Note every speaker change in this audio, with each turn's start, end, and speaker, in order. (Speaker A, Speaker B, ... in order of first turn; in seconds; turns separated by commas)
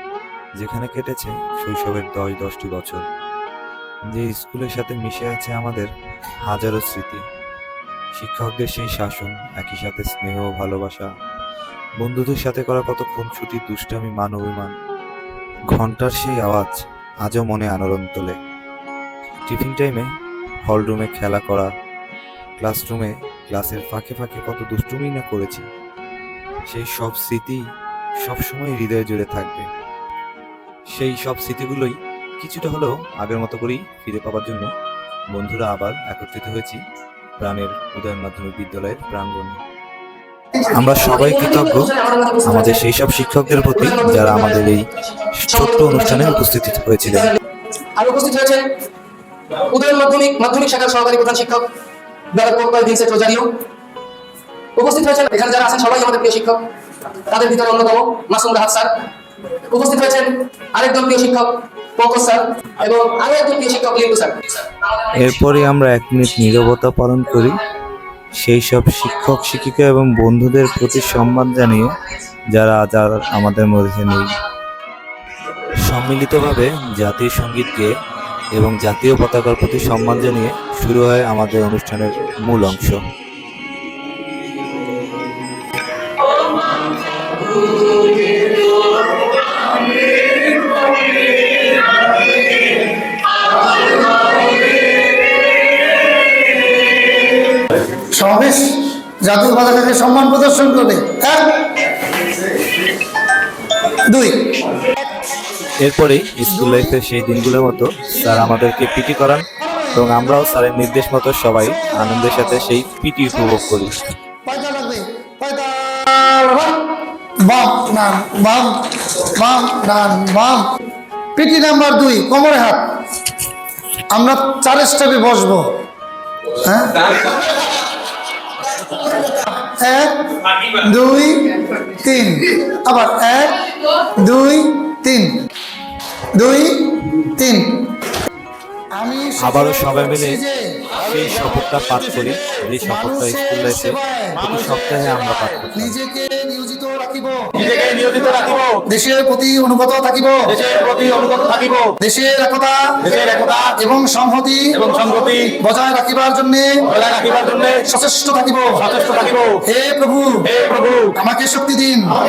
Speaker A: 0.6-3.0, Speaker A: 4.1-5.9, Speaker A: 6.5-7.2, Speaker A: 8.2-11.1, Speaker A: 12.0-14.7, Speaker A: 15.7-18.4, Speaker A: 19.5-20.1, Speaker A: 20.7-21.7, Speaker A: 22.6-25.7, Speaker A: 26.7-27.6, Speaker A: 28.2-29.7, Speaker A: 30.9-34.7, Speaker A: 35.3-36.8, Speaker A: 37.4-39.6, Speaker A: 40.7-41.9, Speaker B: 41.0-42.8, Speaker A: 42.4-44.9, Speaker B: 43.6-44.6, Speaker A: 45.4-47.3, Speaker B: 45.5-46.4, Speaker B: 48.0-48.6, Speaker B: 49.6-51.6, Speaker B: 52.3-53.5, Speaker B: 54.8-56.6, Speaker B: 57.1-58.9, Speaker B: 59.7-65.1, Speaker A: 65.1-67.6, Speaker A: 68.4-72.0, Speaker A: 72.5-74.4, Speaker A: 75.8-77.9, Speaker A: 78.5-83.0, Speaker C: 98.0-98.7, Speaker C: 99.2-101.6, Speaker C: 104.1-104.6, Speaker A: 105.8-114.0, Speaker C: 106.4-107.0, Speaker C: 109.6-110.1, Speaker C: 111.7-112.6, Speaker C: 114.4-116.8, Speaker C: 117.5-120.6, Speaker C: 121.3-122.8, Speaker C: 124.1-125.7, Speaker C: 126.6-127.3, Speaker C: 129.3-135.3, Speaker C: 136.3-137.6, Speaker C: 138.9-140.9, Speaker A: 139.4-140.4, Speaker A: 141.0-145.9, Speaker C: 142.8-144.5, Speaker C: 145.7-147.4, Speaker D: 147.6-148.7, Speaker C: 148.9-150.6, Speaker D: 150.5-151.9, Speaker C: 152.0-152.8, Speaker D: 153.1-153.7, Speaker C: 153.7-154.7, Speaker D: 154.8-155.5, Speaker C: 155.5-156.9, Speaker D: 156.9-157.8, Speaker C: 157.8-158.8, Speaker D: 158.8-159.5, Speaker C: 159.7-160.3, Speaker D: 160.5-161.1, Speaker C: 161.1-162.2